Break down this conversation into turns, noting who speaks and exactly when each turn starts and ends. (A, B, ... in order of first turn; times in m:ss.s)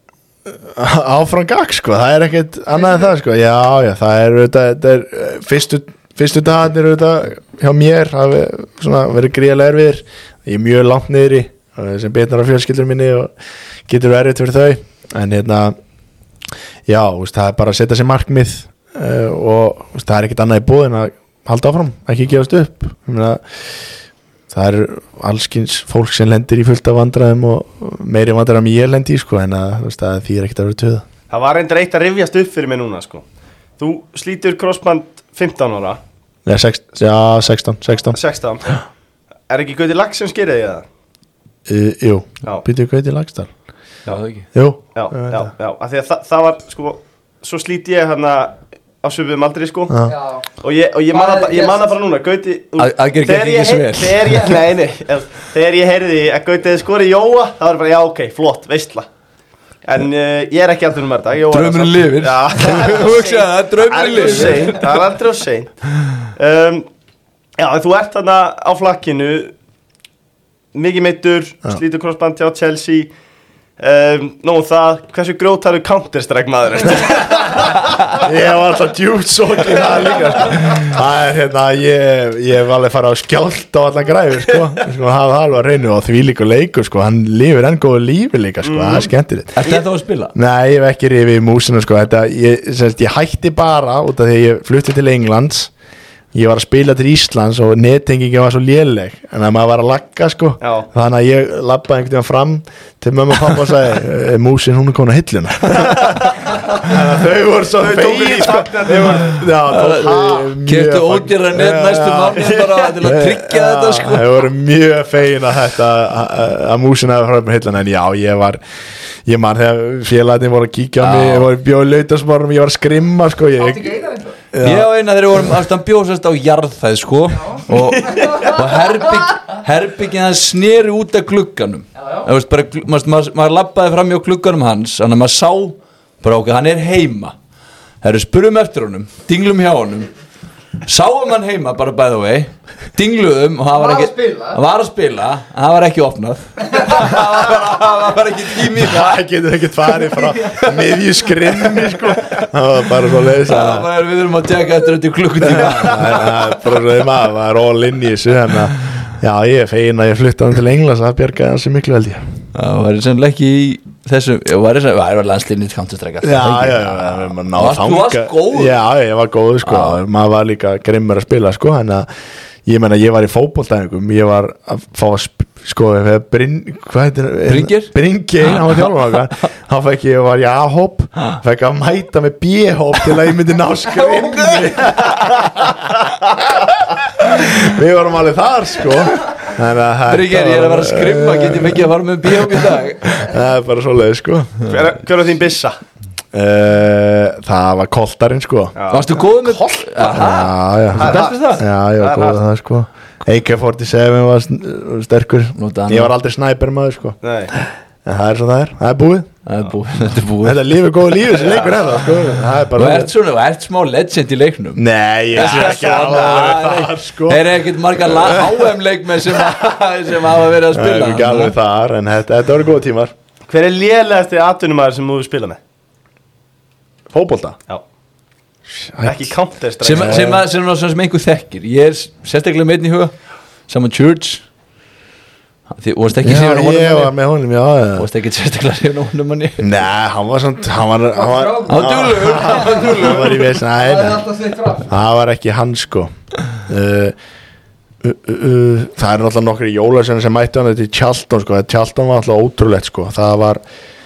0:00.4-0:13.3 A
0:13.9-0:15.7 A
0:16.9-0:23.4 A
0:24.5-0:31.0 A
0:31.3-0:33.2 B
0:33.8-0:36.0 B
0:36.4-0:38.2 A
0:38.1-0:38.8 B
0:39.5-0:40.8 B
0:41.7-0:43.5 A
0:44.1-0:44.4 C
0:44.5-0:45.5 A
0:44.9-0:50.0 B
0:50.0-0:50.4 D
0:50.6-0:59.1 B
0:51.1-0:52.0 D
0:52.8-0:54.5 C
0:59.8-1:05.7 B
1:01.5-1:04.8 C
1:06.3-1:06.9 B
1:07.6-1:09.5 B
1:10.7-1:13.1 B
1:13.8-1:18.1 B
1:18.2-1:29.6 A
1:20.0-1:20.7 B
1:28.6-1:29.1 B
1:29.5-1:30.3 C
1:30.3-1:35.7 A
1:36.3-1:58.6 A
1:40.6-1:40.9 B
1:47.8-1:49.4 B
1:49.6-1:54.3 C
1:52.5-1:52.8 B
1:59.2-2:04.0 A
2:01.0-2:01.5 C
2:03.6-2:04.4 D
2:04.5-2:04.9 A
2:04.6-2:17.3 C
2:07.4-2:08.6 D
2:12.0-2:12.3 D
2:18.0-2:20.1 C
2:20.8-2:29.2 C
2:23.7-2:24.6 D
2:28.8-2:33.9 A
2:30.2-2:30.7 C
2:33.4-2:36.4 C
2:35.6-2:42.2 A
2:42.5-2:48.8 C
2:46.2-2:52.1 A
2:49.6-2:50.0 C
2:52.6-3:14.7 A
2:57.5-2:57.9 C
2:58.5-2:58.8 C
3:10.1-3:13.2 C
3:14.6-3:15.8 B
3:16.3-3:18.8 A
3:18.8-3:20.2 B
3:18.9-3:21.6 C
3:20.0-3:29.3 A
3:21.0-3:22.4 B
3:25.6-3:26.1 C
3:27.2-3:27.5 B
3:29.4-3:30.6 C
3:30.4-3:33.1 A
3:31.4-3:31.9 B
3:32.7-3:41.5 C
3:34.8-3:37.4 A
3:38.1-3:38.6 A
3:40.7-3:43.1 A
3:43.5-3:45.6 B
3:47.1-3:47.6 A
3:48.7-3:49.3 A
3:49.0-3:50.4 B
3:49.8-3:53.1 C
3:49.9-3:50.4 A
3:53.7-3:54.4 C
3:55.8-3:57.1 C
3:56.2-3:58.1 A
3:58.0-3:59.7 C
3:59.6-4:04.3 A
4:01.1-4:03.1 D
4:01.7-4:03.4 C
4:03.7-4:04.9 D
4:04.9-4:07.2 A
4:08.0-4:13.6 A